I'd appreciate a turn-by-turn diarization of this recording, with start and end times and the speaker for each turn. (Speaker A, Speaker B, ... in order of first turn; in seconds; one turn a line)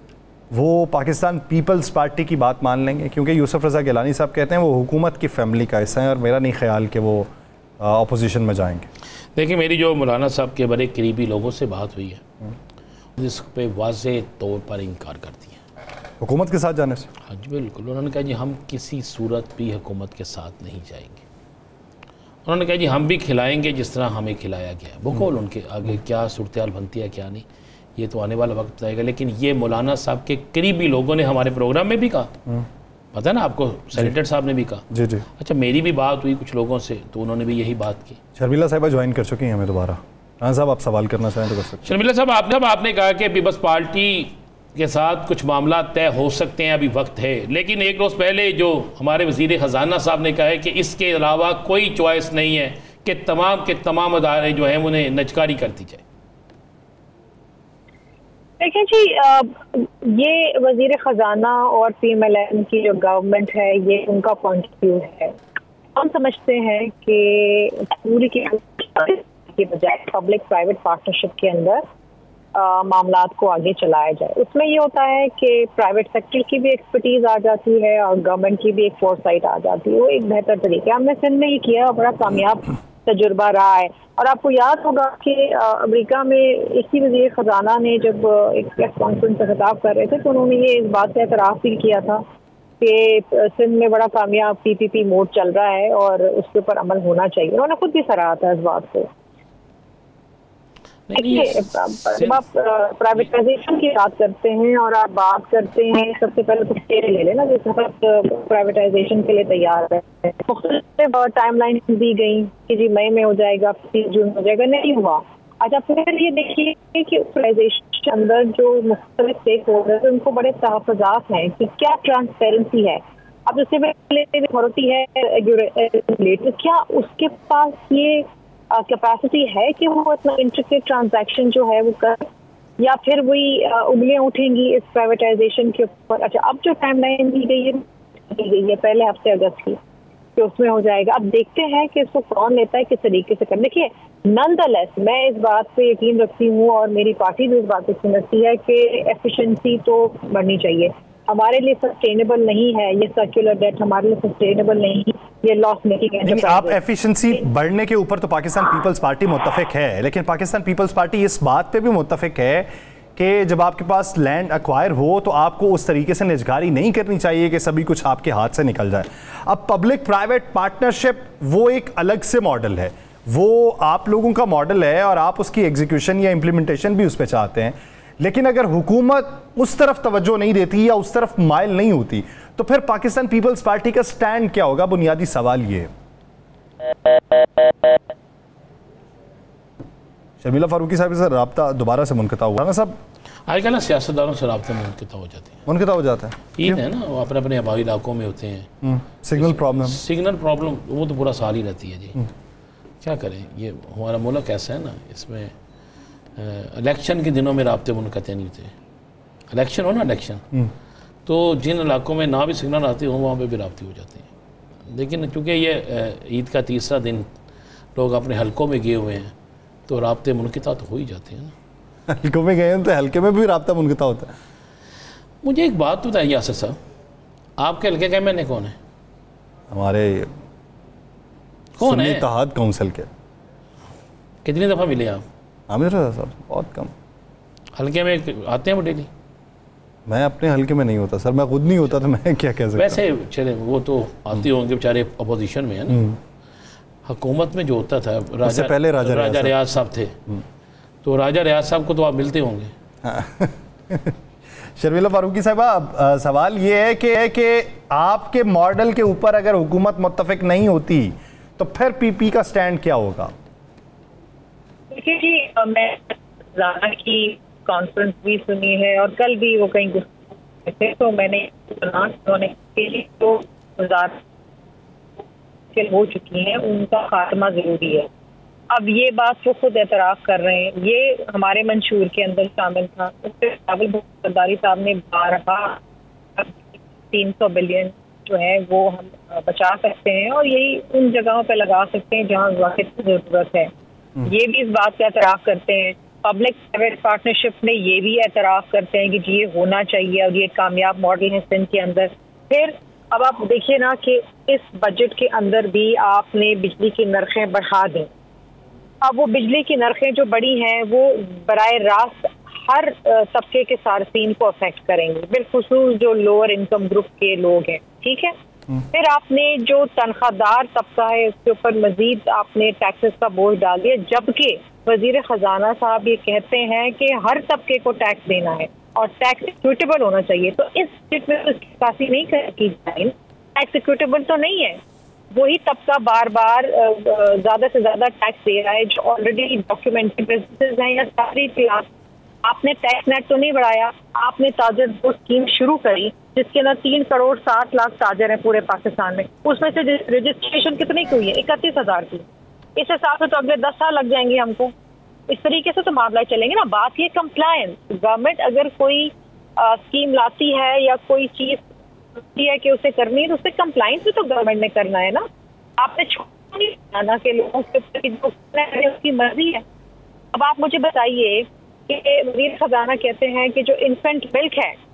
Speaker A: 0.5-7.3
Speaker A: 7.8-8.9
Speaker B: 9.3-12.2
Speaker B: 13.2-15.6
Speaker A: 16.2-17.1
Speaker B: 17.2-21.2
Speaker B: 22.4-27.4
Speaker B: 28.0-32.3
Speaker B: 33.1-34.8
Speaker A: 34.9-35.2
Speaker B: 35.4-38.2
Speaker A: 38.4-41.9
Speaker B: 41.8-56.0
Speaker C: 58.6-65.3
Speaker C: 65.9-71.8
Speaker C: 72.5-92.2
Speaker C: 92.8-99.1
Speaker B: 101.1-102.4
Speaker C: 101.2-132.3
Speaker C: 132.8-139.8
Speaker C: 140.3-156.8
Speaker A: 156.2-185.9
Speaker A: 190.4-193.0
Speaker B: 193.5-195.6
Speaker A: 195.7-196.8
Speaker B: 196.6-198.7
Speaker A: 198.8-200.0
Speaker B: 199.3-202.2
Speaker B: 203.0-205.5
Speaker B: 206.3-208.7
Speaker B: 209.5-210.4
Speaker B: 211.2-214.3
Speaker B: 214.9-217.3
Speaker B: 217.9-219.3
Speaker B: 219.9-221.5
Speaker A: 222.1-224.3
Speaker B: 225.4-226.8
Speaker B: 227.6-228.8
Speaker A: 229.7-230.3
Speaker B: 231.8-232.3
Speaker A: 231.8-233.1
Speaker B: 234.4-235.2
Speaker A: 235.7-236.9
Speaker B: 237.8-239.1
Speaker A: 240.1-243.0
Speaker B: 242.7-246.0
Speaker A: 245.9-246.2
Speaker B: 247.0-250.2
Speaker A: 248.4-249.5
Speaker B: 251.0-252.7
Speaker A: 253.0-254.2
Speaker A: 254.8-263.3
Speaker C: 264.9-274.2
Speaker C: 275.7-278.1
Speaker C: 278.7-285.8
Speaker C: 286.4-293.7
Speaker C: 294.2-308.1
Speaker C: 309.0-318.3
Speaker C: 318.9-334.8
Speaker C: 335.3-341.9
Speaker C: 342.4-352.2
Speaker C: 352.8-354.7
Speaker C: 355.3-361.6
Speaker C: 362.1-365.3
Speaker C: 365.8-369.6
Speaker C: 370.3-374.8